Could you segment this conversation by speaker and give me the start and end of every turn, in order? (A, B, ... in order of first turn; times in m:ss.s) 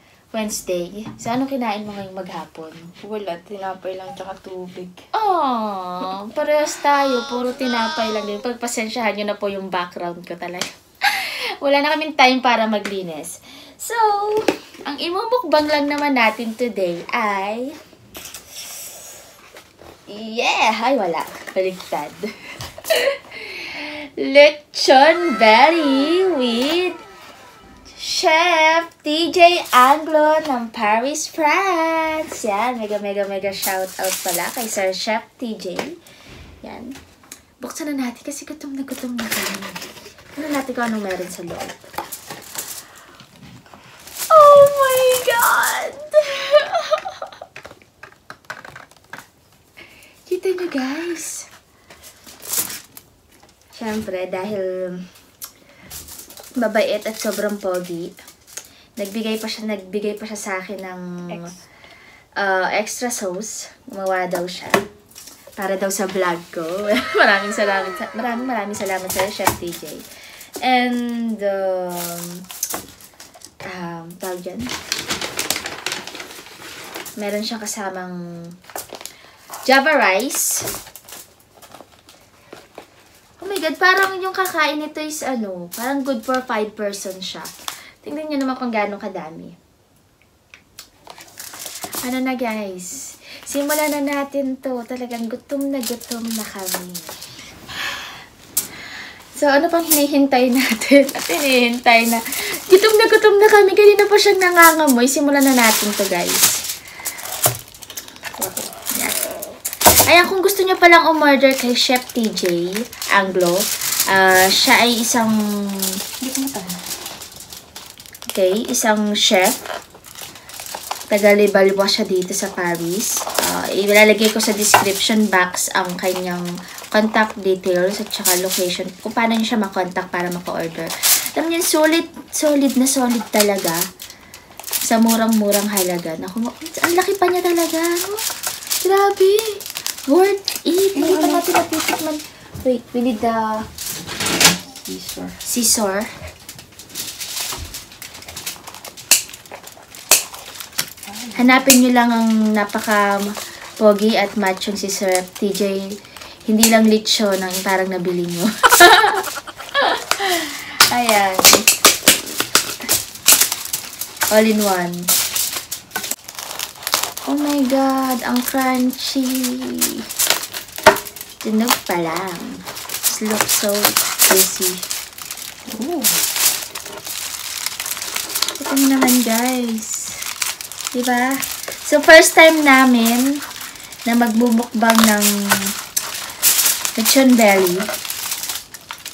0:00.3-0:02.9 A
0:03.0-0:05.0 B
0:05.1-0:17.8 A
0:20.1-0:22.3 A
0:22.9-0:27.0 A
0:27.9-0:36.0 A
0:36.6-0:37.0 A
0:37.6-0:39.8 A
0:40.4-0:41.8 A
0:44.3-0:47.2 A
0:50.3-0:51.5 A
0:53.7-0:55.1 A
0:56.6-0:58.2 A
0:59.0-1:01.5 A
1:01.3-1:01.6 B
1:02.4-1:04.9 A
1:05.6-1:10.0 A
1:10.6-1:12.4 A
1:13.6-1:14.7 A
1:17.2-1:18.5 A
1:19.6-1:20.7 A
1:23.4-1:27.5 A
1:28.0-1:29.5 A
1:32.0-1:37.2 A
1:39.4-1:46.6 A
1:48.4-1:48.7 B
1:48.9-1:49.2 A
1:50.1-1:55.9 A
1:56.2-1:56.8 B
1:58.3-1:59.6 A
2:01.1-2:13.8 A
2:14.8-2:18.2 A
2:18.8-2:23.6 A
2:21.0-2:21.5 B
2:24.4-2:25.4 B
2:25.4-2:26.1 A
2:31.1-2:31.5 B
2:31.4-2:36.0 A
2:36.5-2:39.2 A
2:39.8-2:41.6 A
2:44.3-2:45.1 A
2:47.3-2:50.1 A
2:51.4-2:54.8 A
2:55.7-2:56.2 B
2:58.6-3:00.2 A
3:00.9-3:03.4 A
3:04.1-3:05.7 A
3:07.0-3:07.9 A